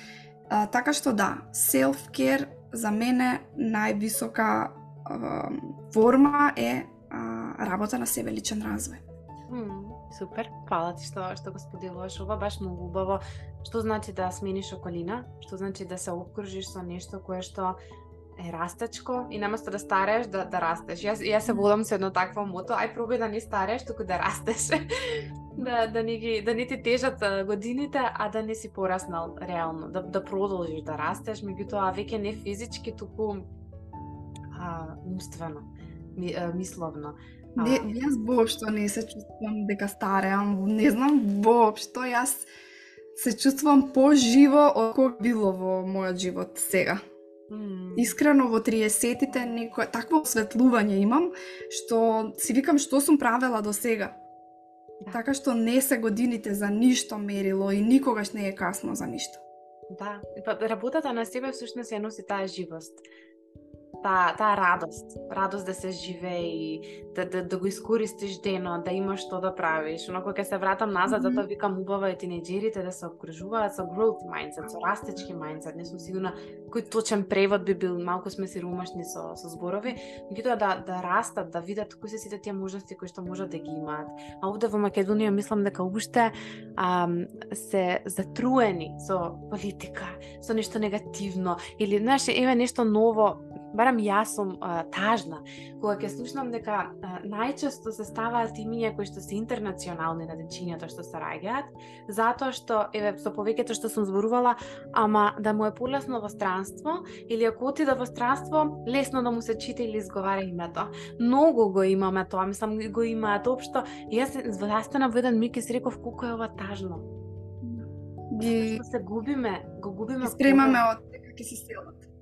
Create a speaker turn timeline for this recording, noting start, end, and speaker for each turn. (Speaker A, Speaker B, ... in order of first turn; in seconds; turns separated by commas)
Speaker A: 0.5-9.0, Speaker B: 9.5-17.8, Speaker B: 18.4-33.5, Speaker B: 34.5-37.9, Speaker A: 37.6-42.5, Speaker A: 43.1-47.0, Speaker B: 47.5-48.1, Speaker A: 48.0-54.2, Speaker A: 55.1-59.4, Speaker B: 59.9-63.0, Speaker B: 64.0-117.1, Speaker A: 71.1-71.4, Speaker A: 117.6-118.8, Speaker B: 118.4-120.8, Speaker A: 120.2-122.0